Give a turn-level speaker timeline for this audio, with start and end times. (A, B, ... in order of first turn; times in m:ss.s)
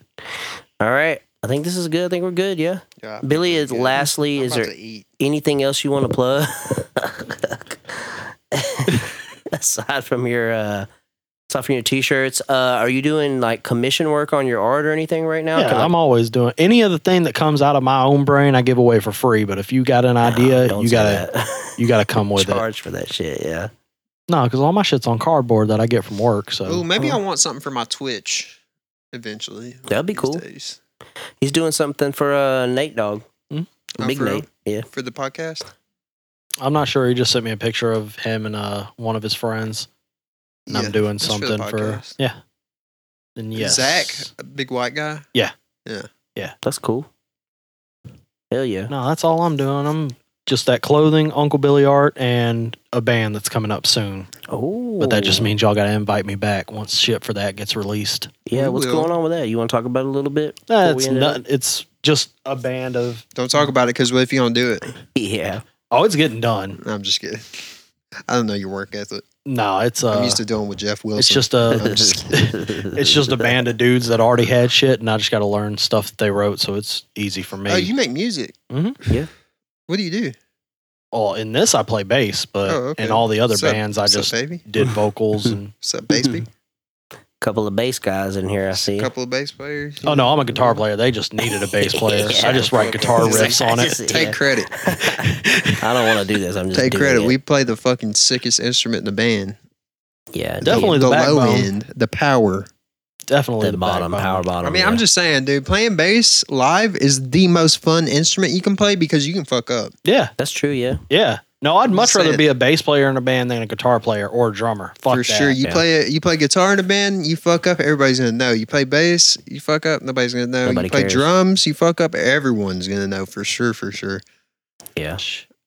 0:00.8-0:10.9 A
0:03.0-0:05.1 B
0:11.5-0:15.9 A
0:15.6-0:21.2 C
0:20.2-0:23.7 A
0:21.8-0:22.6 C
0:24.3-0:26.8 C
0:26.6-0:28.6 B
0:29.1-0:30.8 B
0:29.9-0:30.4 A
0:31.4-0:33.2 A
0:34.0-0:35.7 B
0:34.0-0:34.9 A
0:36.6-0:39.9 C
0:40.7-0:42.2 B
0:40.7-0:42.4 C
0:43.4-0:44.3 C
0:43.6-0:45.2 B
0:46.6-0:47.1 A
0:48.5-0:48.9 A
0:48.9-0:54.3 C
0:54.5-0:55.5 A
0:55.0-0:58.4 C
0:58.4-1:01.4 A
0:58.5-0:59.1 B
1:00.7-1:03.2 C
1:03.3-1:04.9 B
1:05.1-1:05.6 A
1:05.9-1:06.8 C
1:06.8-1:07.7 B
1:08.3-1:09.2 B
1:09.4-1:10.4 C
1:10.1-1:12.3 B
1:11.2-1:17.9 C
1:11.7-1:13.6 A
1:17.7-1:18.5 B
1:18.7-1:19.0 C
1:19.9-1:20.4 B
1:21.1-1:25.7 C
1:22.6-1:24.6 B
1:25.8-1:26.5 B
1:26.1-1:26.4 A
1:27.4-1:29.1 A
1:28.7-1:30.8 B
1:30.0-1:34.0 C
1:31.4-1:37.3 A
1:32.4-1:34.8 B
1:35.0-1:35.8 C
1:36.7-1:39.6 B
1:40.3-1:41.0 A
1:40.6-1:42.7 B
1:40.6-1:41.7 C
1:43.3-1:44.4 C
1:43.6-1:45.0 A
1:44.6-1:49.9 B
1:50.0-1:50.3 C
1:50.4-1:51.0 A
1:51.1-1:55.6 C
1:51.9-1:52.4 B
1:55.1-2:04.2 B
2:00.6-2:01.3 A
2:05.0-2:05.2 A